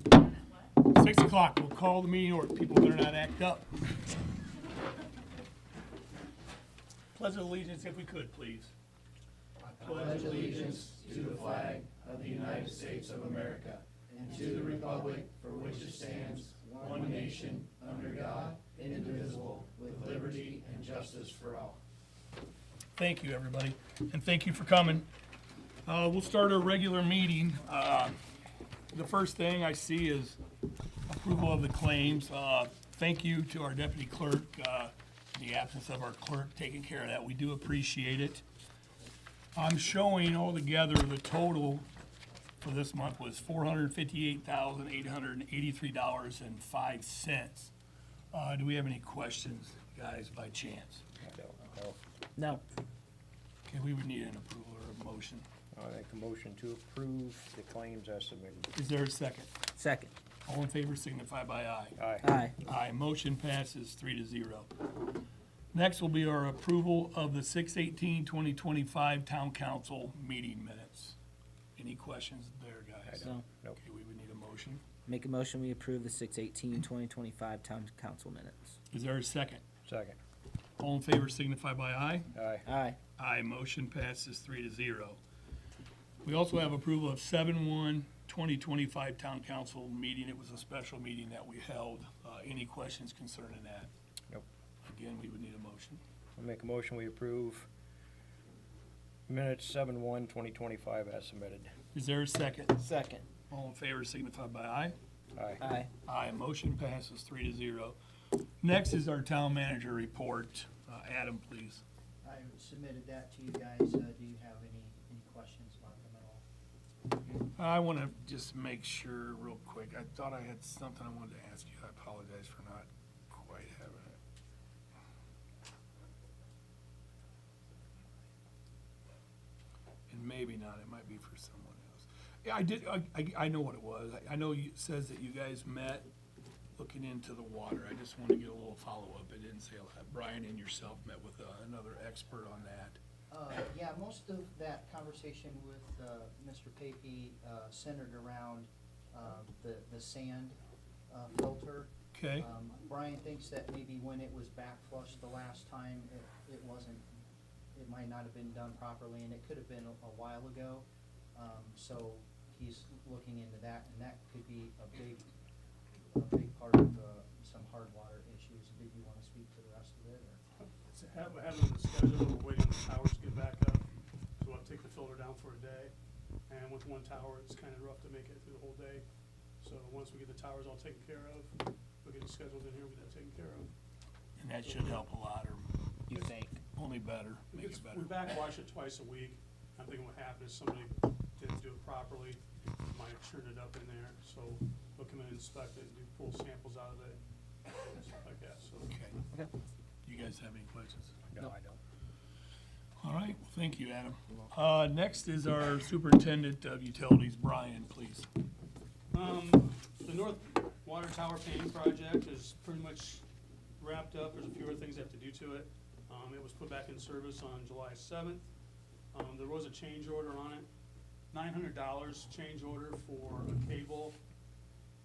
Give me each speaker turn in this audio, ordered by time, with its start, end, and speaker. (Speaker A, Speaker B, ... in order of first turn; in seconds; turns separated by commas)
Speaker A: 0.8-3.7, Speaker A: 7.1-8.7, Speaker B: 9.6-21.8, Speaker A: 9.8-10.8, Speaker A: 22.9-25.1, Speaker A: 25.9-28.2, Speaker A: 28.9-30.4, Speaker A: 31.1-38.4, Speaker A: 39.5-41.9, Speaker A: 42.6-47.7, Speaker A: 48.3-51.0, Speaker C: 51.2-52.0, Speaker D: 52.4-52.6, Speaker A: 53.7-55.4, Speaker C: 55.7-58.7, Speaker A: 58.7-59.5, Speaker D: 59.8-60.1, Speaker A: 60.5-62.0, Speaker C: 62.0-62.3, Speaker D: 62.2-62.5, Speaker A: 62.6-64.7, Speaker A: 65.7-71.2, Speaker A: 71.8-74.8, Speaker C: 73.1-73.8, Speaker D: 73.2-73.4, Speaker D: 75.1-78.8, Speaker A: 78.9-79.6, Speaker C: 79.8-80.2, Speaker A: 80.8-82.3, Speaker C: 82.3-82.7, Speaker D: 82.7-83.0, Speaker A: 83.2-85.2, Speaker A: 86.2-93.9, Speaker A: 94.8-96.0, Speaker C: 96.4-97.7, Speaker C: 99.3-101.7, Speaker A: 101.9-102.8, Speaker D: 102.8-103.3, Speaker A: 103.5-105.0, Speaker C: 105.3-105.6, Speaker D: 105.6-105.9, Speaker A: 106.0-108.0, Speaker A: 108.6-111.8, Speaker B: 112.2-116.4, Speaker A: 117.5-124.2, Speaker A: 130.1-136.1, Speaker A: 136.8-143.0, Speaker B: 143.3-150.6, Speaker B: 151.1-157.1, Speaker A: 152.1-152.5, Speaker B: 157.7-165.2, Speaker B: 166.1-170.4, Speaker E: 170.8-173.8, Speaker E: 174.4-175.9, Speaker E: 176.5-179.0, Speaker E: 179.6-183.7, Speaker A: 184.4-188.1, Speaker E: 184.7-185.0, Speaker D: 186.1-186.6, Speaker E: 187.5-198.9, Speaker A: 198.9-199.2, Speaker A: 200.0-201.2, Speaker C: 201.3-201.8, Speaker A: 203.0-208.3, Speaker E: 209.1-213.2, Speaker E: 213.8-218.4, Speaker E: 219.1-220.7, Speaker E: 221.3-224.2